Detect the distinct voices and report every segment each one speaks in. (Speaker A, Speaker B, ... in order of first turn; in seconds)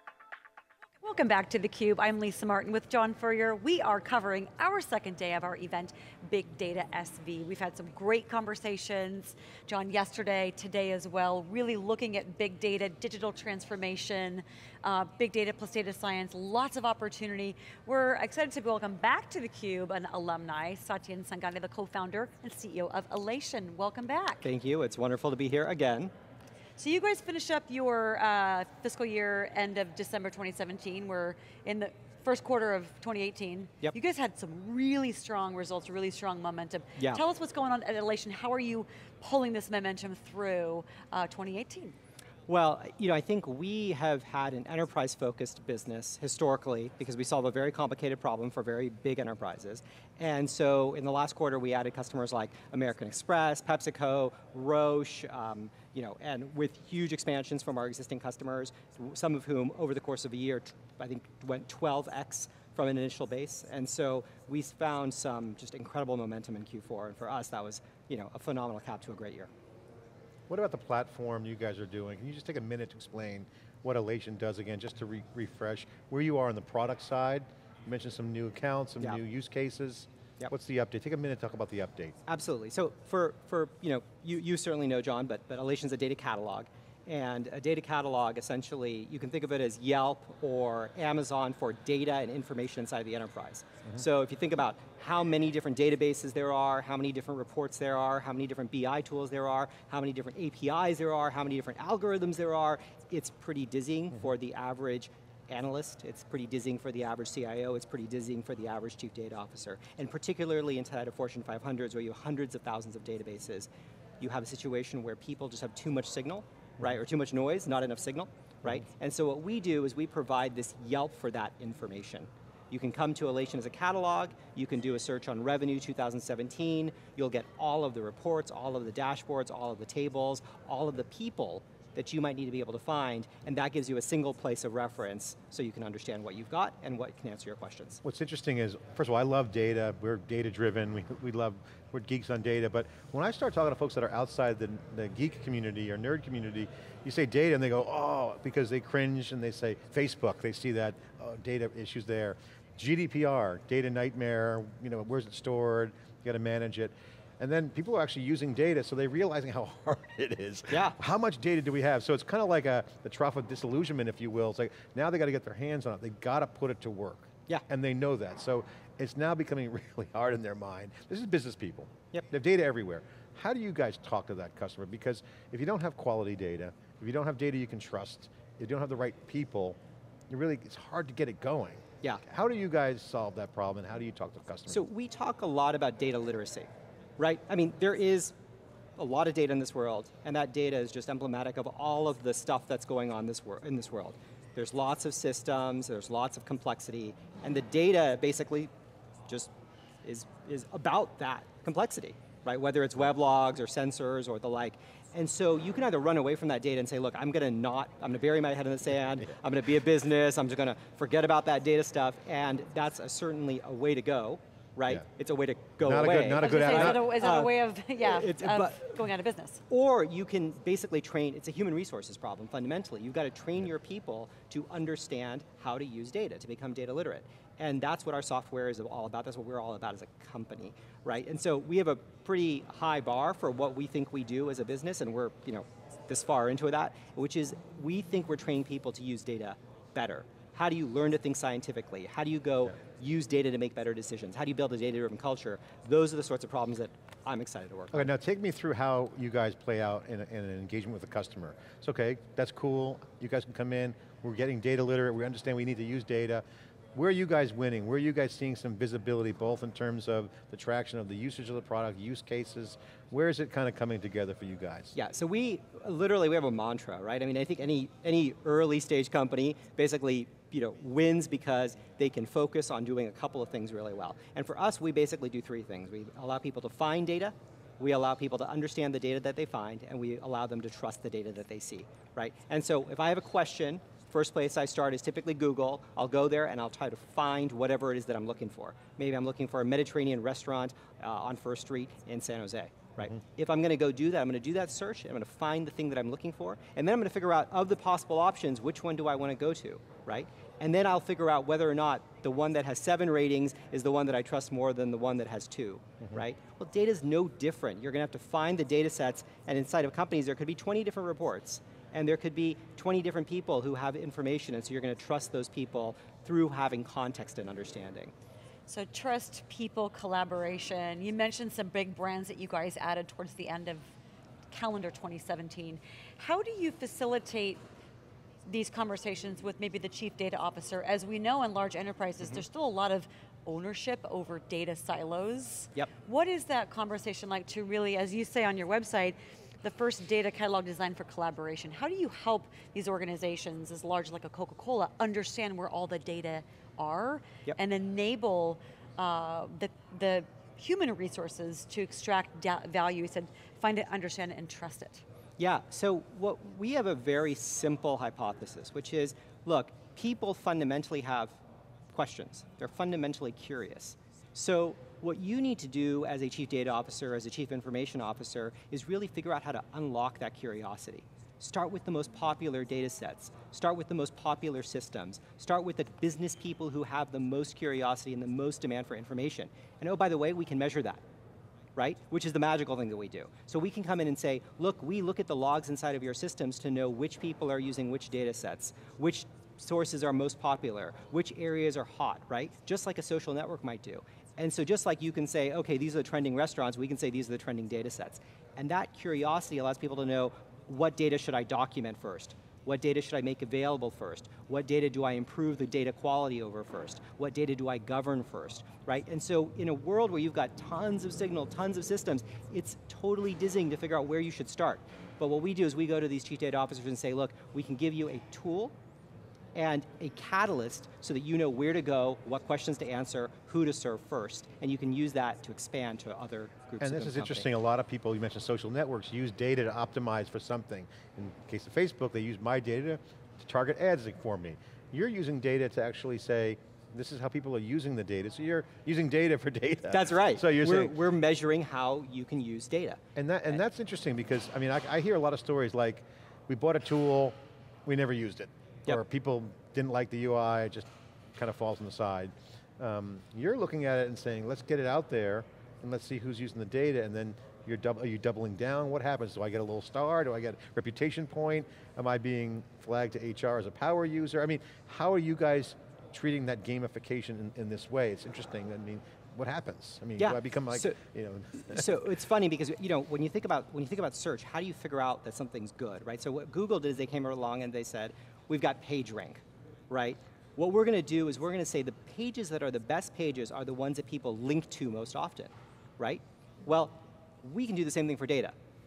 Speaker A: 1.0-24.5, 26.8-42.0, 216.4-219.6, 318.7-323.9, 324.5-327.6, 328.4-355.0
Speaker B: 24.4-26.1, 42.5-69.5, 82.3-113.7, 114.2-138.0, 160.7-161.0, 184.7-188.3, 189.0-198.7, 200.0-219.1, 219.7-248.1, 264.9-318.1, 355.4-361.4, 361.9-381.0, 381.8-418.8, 419.6-427.5, 439.9-443.6, 470.2-471.0, 471.6-488.6
Speaker C: 70.5-82.2, 138.0-179.8, 180.3-184.8, 215.8-217.1, 247.9-256.4, 256.9-264.9, 426.8-440.9, 443.2-472.0